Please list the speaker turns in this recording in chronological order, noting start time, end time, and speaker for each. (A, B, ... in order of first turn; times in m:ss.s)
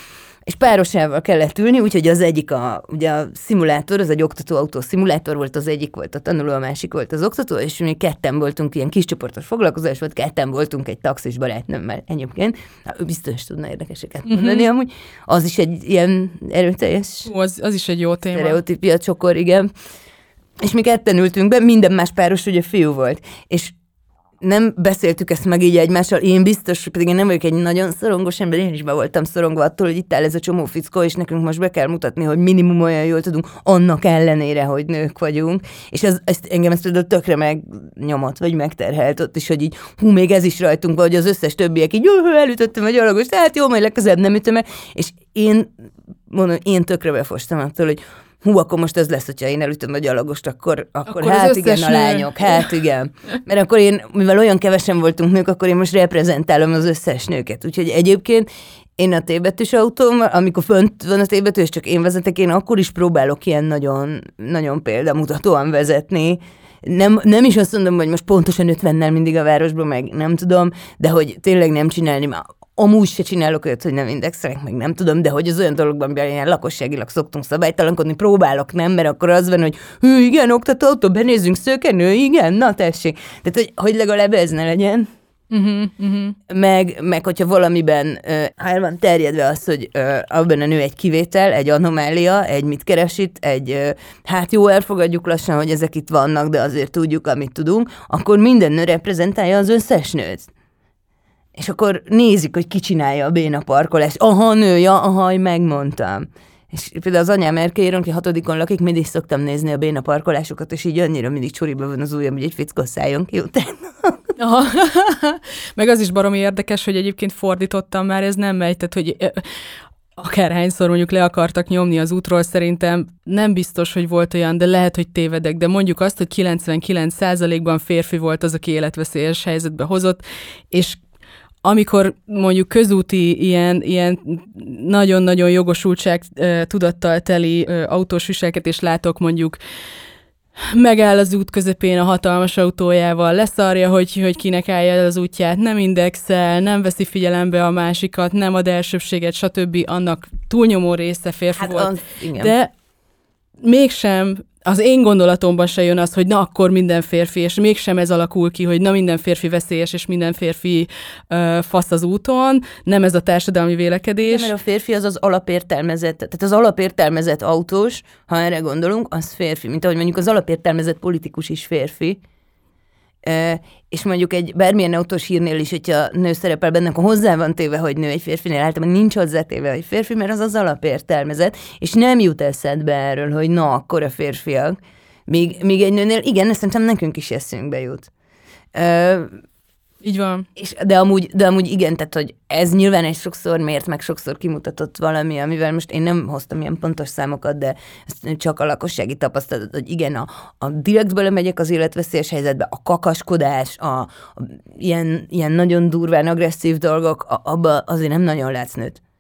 0:00.5-0:17.3 A
0:14.3-0:14.6 B
0:17.3-0:18.6 B
0:18.3-0:19.7 A
0:20.6-0:23.7 A
0:24.4-0:45.7 A
0:46.3-0:58.5 A
0:51.1-0:52.7 B
0:59.0-1:25.1 A
1:25.5-1:26.4 B
1:26.5-1:40.5 A
1:41.6-1:54.2 A
1:54.4-1:59.5 B
2:00.2-2:11.0 B
2:11.6-2:19.6 B
2:20.6-2:32.7 B
2:31.5-2:32.5 A
2:33.6-2:44.5 B
2:44.3-2:52.2 A
2:53.2-3:08.1 A
3:08.7-3:09.3 A
3:10.0-3:10.5 B
3:10.6-3:29.0 A